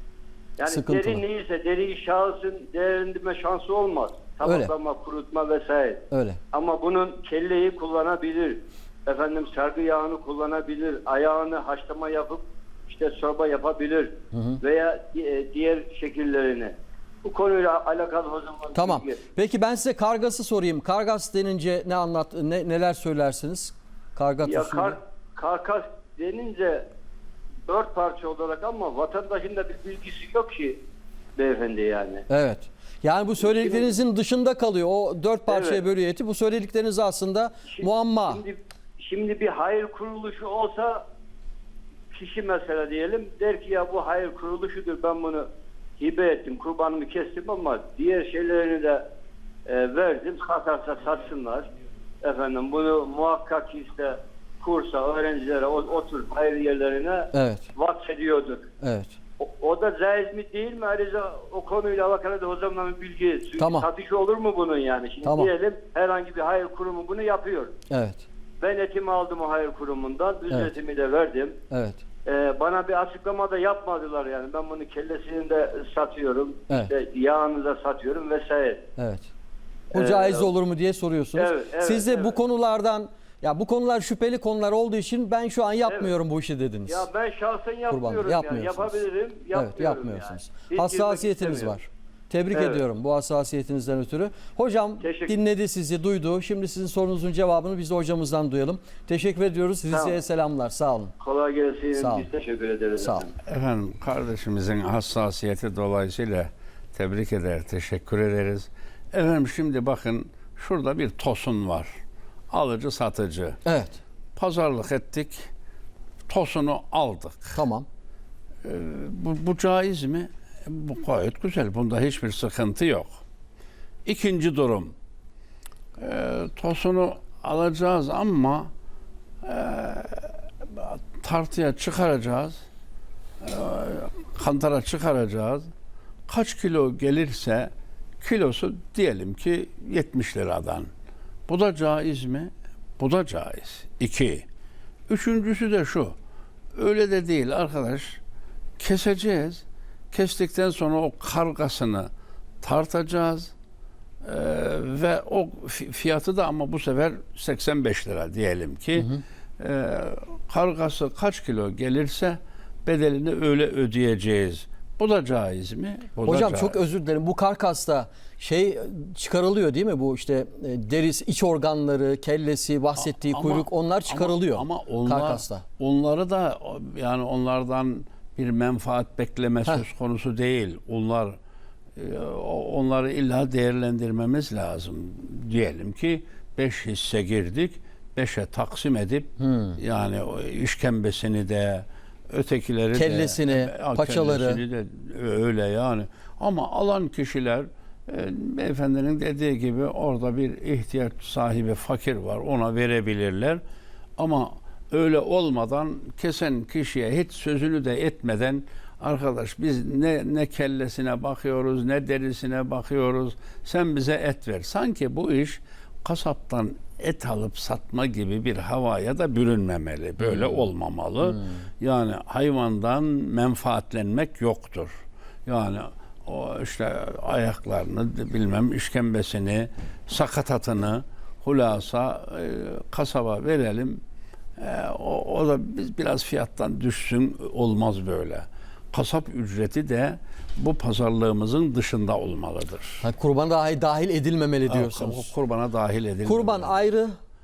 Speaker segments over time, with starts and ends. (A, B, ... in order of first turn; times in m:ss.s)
0:00.6-0:19.2 A
0:00.6-0:01.2 B
0:04.4-0:04.7 B
0:06.1-0:06.4 B
0:14.3-0:14.6 B
0:18.8-0:25.0 B
0:24.4-0:26.8 A
0:27.7-0:30.8 A
0:31.4-0:32.3 A
0:32.3-0:38.4 B
0:33.4-0:33.9 A
0:35.5-0:35.8 A
0:37.7-0:41.0 A
0:42.1-0:45.5 A
0:46.0-0:49.0 A
0:49.7-0:51.7 A
0:52.2-0:58.7 A
0:57.3-0:57.7 B
0:58.8-0:59.2 B
0:59.4-1:07.8 A
1:03.6-1:03.9 B
1:05.2-1:05.5 B
1:07.9-1:08.3 B
1:08.6-1:11.6 A
1:11.7-1:12.0 B
1:12.2-1:18.8 A
1:19.0-1:19.3 B
1:19.9-1:20.5 A
1:19.9-1:27.1 B
1:21.3-1:22.4 A
1:25.9-1:26.1 A
1:26.9-1:31.8 A
1:27.9-1:29.0 B
1:29.5-1:41.1 B
1:32.5-1:32.8 A
1:35.0-1:35.4 A
1:39.9-1:40.2 A
1:41.2-1:43.3 A
1:42.0-1:42.3 B
1:43.0-1:43.3 B
1:43.5-1:51.9 C
1:52.5-1:53.6 C
1:53.7-1:54.0 B
1:54.4-1:55.5 C
1:56.3-1:57.6 C
1:57.6-1:57.9 B
1:58.6-2:03.2 C
2:04.1-2:04.9 C
2:06.0-2:08.7 C
2:09.4-2:12.6 C
2:13.4-2:15.7 C
2:16.3-2:20.9 C
2:21.5-2:24.4 C
2:25.1-2:26.2 C
2:26.8-2:28.2 C
2:28.8-2:32.1 C
2:32.6-2:33.5 C
2:34.2-2:46.8 C
2:39.0-2:39.2 B
2:46.2-2:55.6 B
2:53.0-3:01.4 C
3:02.0-3:23.6 C
3:09.4-3:09.8 B
3:12.9-3:14.6 B
3:24.2-3:44.9 C
3:45.5-3:54.0 C
3:54.6-4:03.0 C
4:03.0-4:05.3 B
4:04.7-4:06.8 C
4:06.2-4:07.2 B